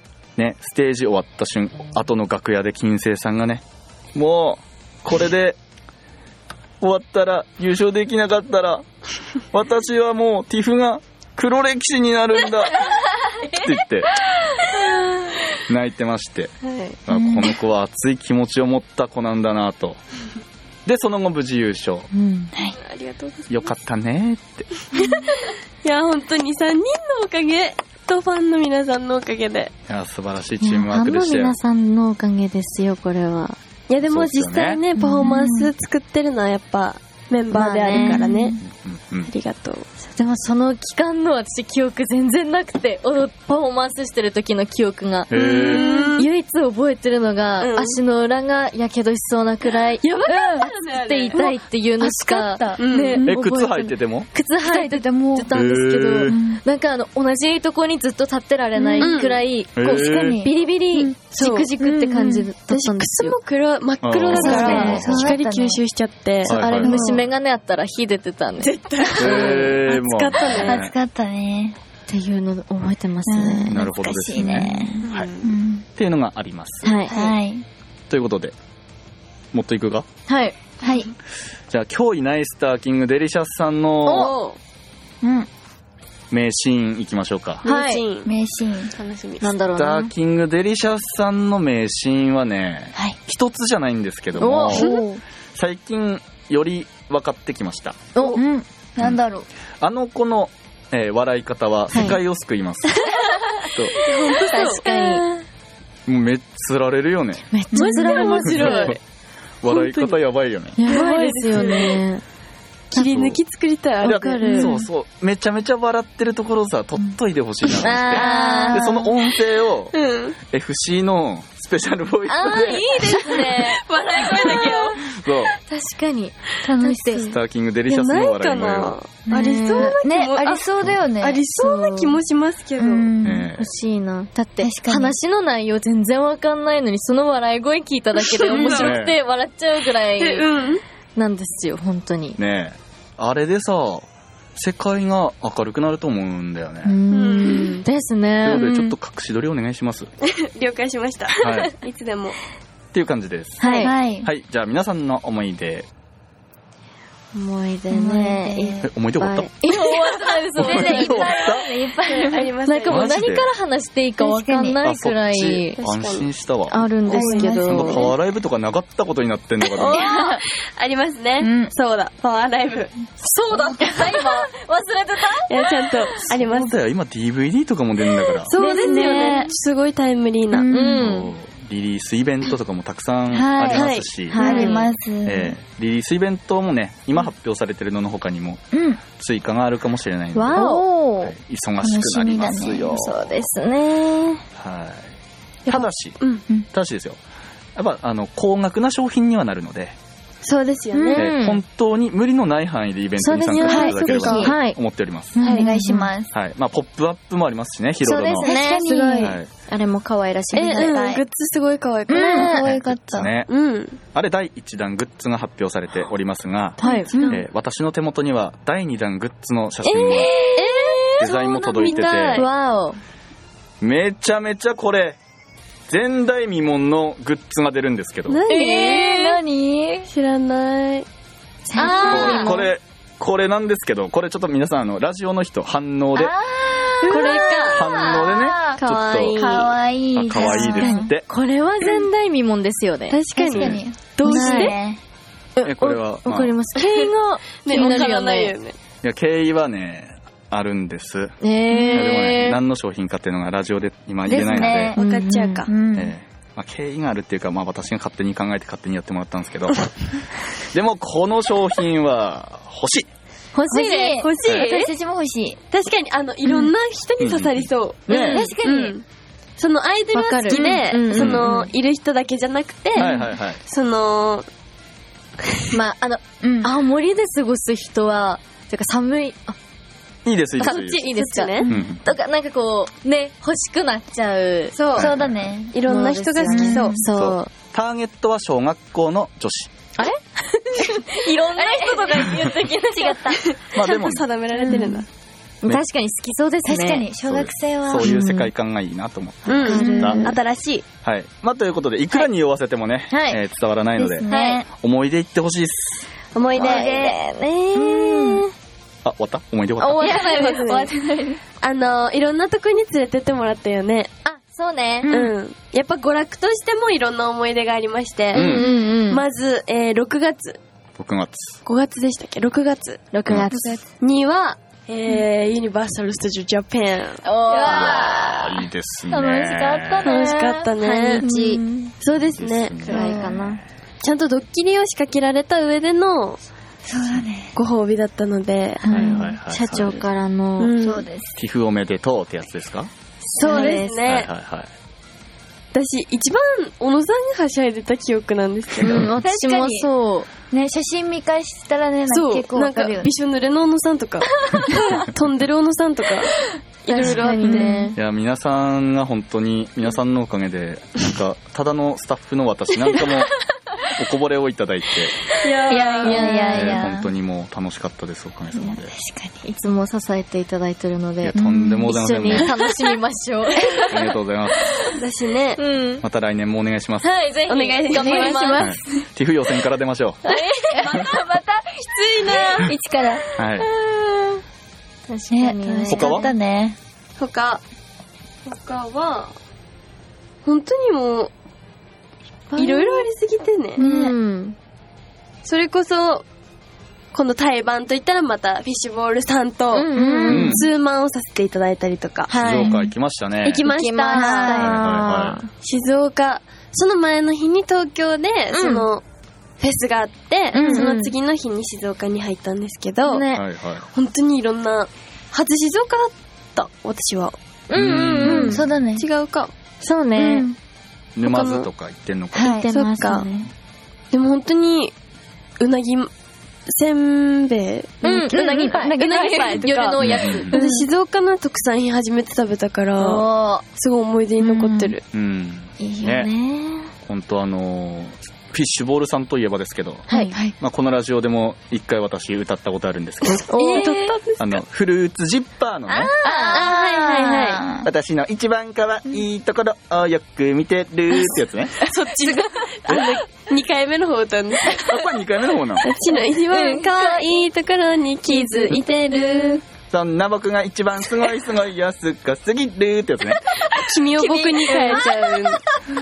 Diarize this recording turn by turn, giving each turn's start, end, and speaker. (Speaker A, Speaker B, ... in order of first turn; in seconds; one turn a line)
Speaker A: 0.4-3.6
Speaker A: 4.1-5.6
Speaker A: 6.8-8.9
Speaker A: 9.5-14.1
Speaker A: 15.7-16.5
Speaker B: 16.7-16.9
Speaker A: 17.1-20.0
Speaker C: 17.1-17.6
Speaker A: 20.9-22.1
Speaker D: 22.1-22.5
Speaker C: 22.5-22.8
Speaker B: 22.7-23.7
Speaker A: 23.5-24.7
Speaker B: 24.9-29.7
Speaker A: 29.9-31.6
Speaker D: 30.6-33.6
Speaker B: 33.9-38.6
Speaker A: 34.0-34.8
Speaker D: 35.0-35.4
Speaker C: 35.0-35.7
Speaker D: 37.5-38.5
Speaker C: 37.9-38.6
Speaker A: 38.6-39.3
Speaker B: 39.3-39.9
Speaker D: 40.1-63.4
Speaker A: 45.3-45.9
Speaker B: 45.4-46.3
Speaker B: 47.6-48.0
Speaker B: 50.0-51.6
Speaker C: 50.3-50.7
Speaker C: 51.3-53.3
Speaker B: 52.8-53.3
Speaker A: 53.3-54.3
Speaker C: 54.6-55.6
Speaker A: 55.5-56.4
Speaker C: 56.3-56.6
Speaker C: 58.8-59.2
Speaker B: 59.0-59.4
Speaker A: 59.8-60.4
Speaker C: 59.9-61.1
Speaker B: 61.3-61.7
Speaker C: 61.8-62.5
Speaker B: 62.7-67.2
Speaker A: 64.0-65.3
Speaker D: 64.3-65.2
Speaker C: 64.3-65.8
Speaker A: 66.5-67.0
Speaker D: 66.5-69.6
Speaker C: 66.8-67.2
Speaker B: 68.6-70.9
Speaker A: 69.2-70.9
Speaker C: 69.2-69.6
Speaker C: 70.4-71.8
Speaker D: 72.1-73.8
Speaker C: 73.3-75.8
Speaker A: 73.7-75.3
Speaker D: 74.4-74.9
Speaker B: 75.0-75.5
Speaker A: 76.0-76.9
Speaker D: 76.8-77.2
Speaker B: 77.1-77.3
Speaker C: 77.1-77.7
Speaker A: 78.1-78.5
Speaker A: 79.5-80.1
Speaker D: 80.3-80.6
Speaker C: 80.8-81.1
Speaker A: 81.7-84.3
Speaker D: 84.0-84.4
Speaker B: 84.1-84.6
Speaker C: 85.2-85.5
Speaker A: 86.3-87.6
Speaker B: 87.6-88.3
Speaker D: 87.6-88.0
Speaker C: 88.2-88.9
Speaker B: 89.0-89.5
Speaker D: 89.4-90.1
Speaker A: 89.8-94.9
Speaker D: 94.4-95.0
Speaker C: 94.7-95.2
Speaker B: 94.8-95.1
Speaker A: 95.5-98.0
Speaker D: 98.2-98.4
Speaker C: 98.3-99.5
Speaker A: 99.8-103.0
Speaker D: 101.9-102.2
Speaker A: 103.7-104.0
Speaker B: 104.0-105.4
Speaker D: 104.0-105.2
Speaker A: 106.1-107.5
Speaker D: 107.5-109.0
Speaker C: 107.7-108.4
Speaker B: 107.7-109.0
Speaker A: 108.5-109.0
Speaker A: 109.6-110.8
Speaker B: 109.7-110.2
Speaker D: 110.8-112.2
Speaker B: 110.8-112.0
Speaker B: 112.9-114.7
Speaker A: 113.0-113.4
Speaker D: 114.0-114.8
Speaker A: 114.0-120.0
Speaker C: 114.5-114.8
Speaker D: 117.8-119.0
Speaker C: 118.1-119.1
Speaker B: 119.9-120.4
Speaker A: 120.5-122.9
Speaker D: 122.3-125.0
Speaker B: 122.4-125.0
Speaker A: 125.1-125.5
Speaker D: 125.7-127.3
Speaker C: 126.6-127.3
Speaker A: 127.2-129.0
Speaker B: 127.9-130.7
Speaker C: 129.3-131.4
Speaker D: 129.3-130.0
Speaker B: 131.2-133.1
Speaker D: 131.6-132.2
Speaker C: 132.8-133.5
Speaker A: 133.2-133.7
Speaker D: 133.6-140.5
Speaker C: 134.6-135.2
Speaker B: 138.2-139.0
Speaker A: 138.5-139.2
Speaker B: 140.2-140.8
Speaker D: 141.2-142.4
Speaker A: 142.4-147.0
Speaker D: 146.8-148.8
Speaker B: 147.1-147.8
Speaker A: 148.4-150.1
Speaker C: 148.5-148.9
Speaker B: 150.2-152.4
Speaker A: 151.4-151.7
Speaker A: 152.9-155.9
Speaker D: 153.6-153.9
Speaker C: 153.8-154.3
Speaker D: 157.3-161.3
Speaker C: 157.9-158.9
Speaker A: 158.8-159.5
Speaker C: 159.7-162.5
Speaker A: 160.6-161.7
Speaker B: 162.1-163.2
Speaker D: 162.7-165.8
Speaker A: 162.9-163.5
Speaker C: 164.2-164.8
Speaker A: 164.8-166.9
Speaker B: 165.8-166.3
Speaker D: 166.7-168.1
Speaker B: 167.1-167.8
Speaker C: 167.1-168.1
Speaker A: 167.7-170.0
Speaker D: 169.8-170.4
Speaker C: 169.8-170.4
Speaker B: 170.8-172.9
Speaker C: 171.4-171.7
Speaker D: 173.2-175.9
Speaker C: 173.5-174.4
Speaker B: 175.5-176.8
Speaker A: 176.3-178.5
Speaker B: 178.5-180.7
Speaker C: 178.5-179.5
Speaker D: 178.8-179.4
Speaker C: 180.5-181.1
Speaker D: 180.7-181.3
Speaker A: 181.0-184.7
Speaker C: 183.3-185.6
Speaker B: 183.7-184.7
Speaker D: 184.3-184.9
Speaker A: 185.2-190.7
Speaker C: 188.7-189.0
Speaker D: 190.3-191.3
Speaker C: 190.5-193.1
Speaker A: 191.2-193.3
Speaker D: 192.9-194.4
Speaker A: 194.6-195.1
Speaker B: 195.7-196.4
Speaker A: 195.7-197.2
Speaker A: 197.8-200.0
Speaker B: 200.4-201.3
Speaker C: 200.9-201.3
Speaker D: 201.1-201.6
Speaker A: 201.2-205.4
Speaker D: 203.2-204.8
Speaker C: 203.6-204.6
Speaker B: 203.7-204.5
Speaker C: 205.4-206.3
Speaker B: 205.4-205.8
Speaker D: 205.5-206.1
Speaker A: 206.3-208.5
Speaker D: 208.0-211.0
Speaker C: 208.4-209.4
Speaker A: 209.2-209.5
Speaker B: 210.5-212.7
Speaker C: 210.7-211.2
Speaker C: 212.1-213.3
Speaker D: 212.1-212.7
Speaker A: 212.6-213.5
Speaker B: 213.5-214.0
Speaker A: 214.1-220.3
Speaker D: 216.8-217.3
Speaker B: 216.8-217.4
Speaker C: 217.1-217.4
Speaker D: 219.8-220.9
Speaker C: 220.0-220.7
Speaker B: 220.6-222.5
Speaker A: 221.2-222.5
Speaker D: 221.8-223.0
Speaker A: 223.8-225.2
Speaker A: 225.9-228.4
Speaker B: 228.3-229.3
Speaker C: 228.5-230.1
Speaker D: 228.5-229.4
Speaker B: 230.1-231.1
Speaker D: 231.7-232.7
Speaker B: 231.8-232.6
Speaker C: 231.8-232.5
Speaker A: 232.1-236.4
Speaker C: 236.2-238.8
Speaker D: 237.0-238.0
Speaker B: 237.1-237.8
Speaker A: 237.7-239.4
Speaker B: 238.8-239.8
Speaker C: 239.3-241.1
Speaker A: 240.1-241.3
Speaker D: 240.4-243.2
Speaker B: 243.1-244.8
Speaker C: 243.4-245.0
Speaker D: 244.2-244.7
Speaker D: 245.6-248.5
Speaker A: 245.6-246.5
Speaker B: 246.8-248.8
Speaker A: 249.0-251.4
Speaker D: 251.4-252.6
Speaker C: 251.7-252.1
Speaker A: 251.9-255.0
Speaker C: 254.3-256.1
Speaker B: 254.9-255.7
Speaker D: 255.0-255.7
Speaker A: 255.9-259.9
Speaker A: 260.6-263.1
Speaker D: 263.5-264.2
Speaker C: 263.7-265.6
Speaker B: 264.1-264.9
Speaker B: 265.7-269.1
Speaker A: 267.2-268.5
Speaker D: 268.1-268.5
Speaker C: 268.3-268.9
Speaker B: 269.6-274.5
Speaker D: 270.1-271.7
Speaker C: 270.5-270.8
Speaker A: 271.1-271.5
Speaker C: 273.0-273.2
Speaker A: 273.0-273.6
Speaker D: 275.7-279.6
Speaker C: 276.4-276.7
Speaker A: 280.2-281.1
Speaker D: 280.6-284.8
Speaker B: 280.6-281.7
Speaker A: 281.7-282.0
Speaker B: 284.8-285.2
Speaker C: 284.9-285.8
Speaker A: 285.0-285.5
Speaker B: 285.7-287.0
Speaker D: 285.9-287.5
Speaker C: 286.4-287.0
Speaker A: 287.1-289.7
Speaker D: 290.0-293.4
Speaker B: 291.2-295.1
Speaker A: 293.7-294.2
Speaker D: 294.6-295.0
Speaker C: 294.6-295.0
Speaker D: 295.6-297.1
Speaker C: 296.6-298.2
Speaker A: 297.2-300.2
Speaker D: 298.0-298.5
Speaker B: 299.5-300.9
Speaker D: 299.6-300.4
Speaker C: 299.6-300.2
Speaker A: 301.0-306.1
Speaker D: 303.1-303.4
Speaker C: 304.0-304.7
Speaker D: 304.3-304.6
Speaker B: 306.3-307.1
Speaker D: 306.6-308.5
Speaker C: 306.6-307.1
Speaker C: 307.7-308.4
Speaker A: 309.1-310.1
Speaker D: 309.8-310.9
Speaker C: 310.0-311.4
Speaker B: 310.0-310.9
Speaker B: 311.6-314.1
Speaker D: 314.2-315.1
Speaker C: 315.0-315.3
Speaker B: 315.1-320.6
Speaker A: 318.3-318.7
Speaker D: 318.3-319.2
Speaker A: 321.0-321.6
Speaker B: 321.6-323.1
Speaker D: 323.1-323.8
Speaker C: 323.5-323.8
Speaker B: 324.0-327.6
Speaker D: 327.2-328.6
Speaker C: 327.5-328.5
Speaker A: 327.6-330.1
Speaker C: 329.1-331.9
Speaker B: 330.0-331.3
Speaker D: 330.8-331.6
Speaker B: 332.0-332.8
Speaker A: 332.1-333.6
Speaker D: 332.8-333.6
Speaker C: 332.9-333.4
Speaker B: 334.0-336.4
Speaker C: 336.8-337.5
Speaker B: 337.6-339.2
Speaker D: 338.8-340.7
Speaker A: 338.9-340.1
Speaker B: 340.6-341.1
Speaker C: 340.8-341.4
Speaker A: 341.4-342.9
Speaker B: 343.3-344.3
Speaker D: 343.4-344.0
Speaker C: 343.4-343.8
Speaker A: 344.0-344.7
Speaker B: 345.7-349.1
Speaker D: 348.8-350.3
Speaker C: 349.2-349.9
Speaker C: 350.5-353.1
Speaker B: 352.1-357.9
Speaker D: 356.9-358.0
Speaker C: 357.0-357.9
Speaker A: 357.9-363.3
Speaker A: 363.9-365.2
Speaker B: 365.4-366.5
Speaker C: 365.7-367.1
Speaker D: 365.7-366.9
Speaker A: 366.5-368.9
Speaker C: 368.6-369.4
Speaker D: 369.4-374.1
Speaker A: 371.2-372.5
Speaker C: 371.4-372.5
Speaker A: 373.9-374.7
Speaker D: 374.7-375.0
Speaker B: 375.0-375.6
Speaker D: 375.6-376.1
Speaker A: 376.0-377.1
Speaker D: 377.0-378.8
Speaker B: 377.5-378.7
Speaker C: 377.9-379.0
Speaker A: 378.6-380.2
Speaker D: 380.3-381.3
Speaker C: 380.8-383.3
Speaker B: 380.8-381.2
Speaker B: 381.8-382.8
Speaker A: 383.4-383.7
Speaker D: 383.8-384.4
Speaker D: 385.1-386.3
Speaker C: 385.3-386.8
Speaker A: 385.9-386.3
Speaker B: 387.2-387.6
Speaker B: 388.4-389.3
Speaker B: 390.4-391.3
Speaker D: 392.5-393.0
Speaker B: 392.6-393.8
Speaker C: 393.8-394.2
Speaker D: 393.8-394.6
Speaker B: 395.4-396.2
Speaker B: 397.1-402.4
Speaker D: 399.7-400.6
Speaker C: 399.9-400.6
Speaker A: 400.3-400.7
Speaker D: 402.3-402.8
Speaker A: 402.4-403.7
Speaker C: 402.6-402.9
Speaker B: 403.4-404.6
Speaker D: 403.6-405.5
Speaker C: 404.0-404.9
Speaker A: 404.6-405.4
Speaker B: 405.6-409.0
Speaker D: 408.5-408.9
Speaker B: 409.6-413.3
Speaker C: 410.5-410.9
Speaker D: 410.6-411.1
Speaker D: 413.1-413.4
Speaker A: 413.3-413.9
Speaker B: 413.9-417.4
Speaker D: 417.7-418.6
Speaker A: 417.7-418.6
Speaker C: 418.2-419.1
Speaker B: 419.0-419.5
Speaker D: 419.8-420.5
Speaker C: 420.2-420.6
Speaker A: 421.2-422.6
Speaker B: 421.2-421.7
Speaker C: 422.3-422.7
Speaker D: 422.4-423.5
Speaker B: 422.7-423.3
Speaker B: 424.1-424.9
Speaker B: 425.6-426.1
Speaker B: 426.7-435.0
Speaker D: 428.0-430.8
Speaker C: 428.3-429.7
Speaker A: 430.0-430.5
Speaker C: 430.5-430.9
Speaker D: 433.0-433.6
Speaker C: 434.4-434.9
Speaker A: 435.1-436.3
Speaker D: 435.8-436.9
Speaker A: 437.1-443.5
Speaker D: 440.1-440.4
Speaker C: 440.1-440.6
Speaker B: 443.4-444.6
Speaker D: 443.5-444.1
Speaker A: 444.4-446.1
Speaker D: 445.9-446.8
Speaker C: 446.2-447.9
Speaker B: 446.5-447.6
Speaker A: 447.8-451.8
Speaker B: 451.8-455.0
Speaker A: 454.8-455.9
Speaker B: 455.8-459.6
Speaker C: 456.5-456.9
Speaker D: 456.6-457.2
Speaker C: 458.3-459.6
Speaker D: 458.5-459.6
Speaker A: 459.9-463.4
Speaker B: 463.8-465.6
Speaker C: 464.2-465.4
Speaker D: 464.7-465.1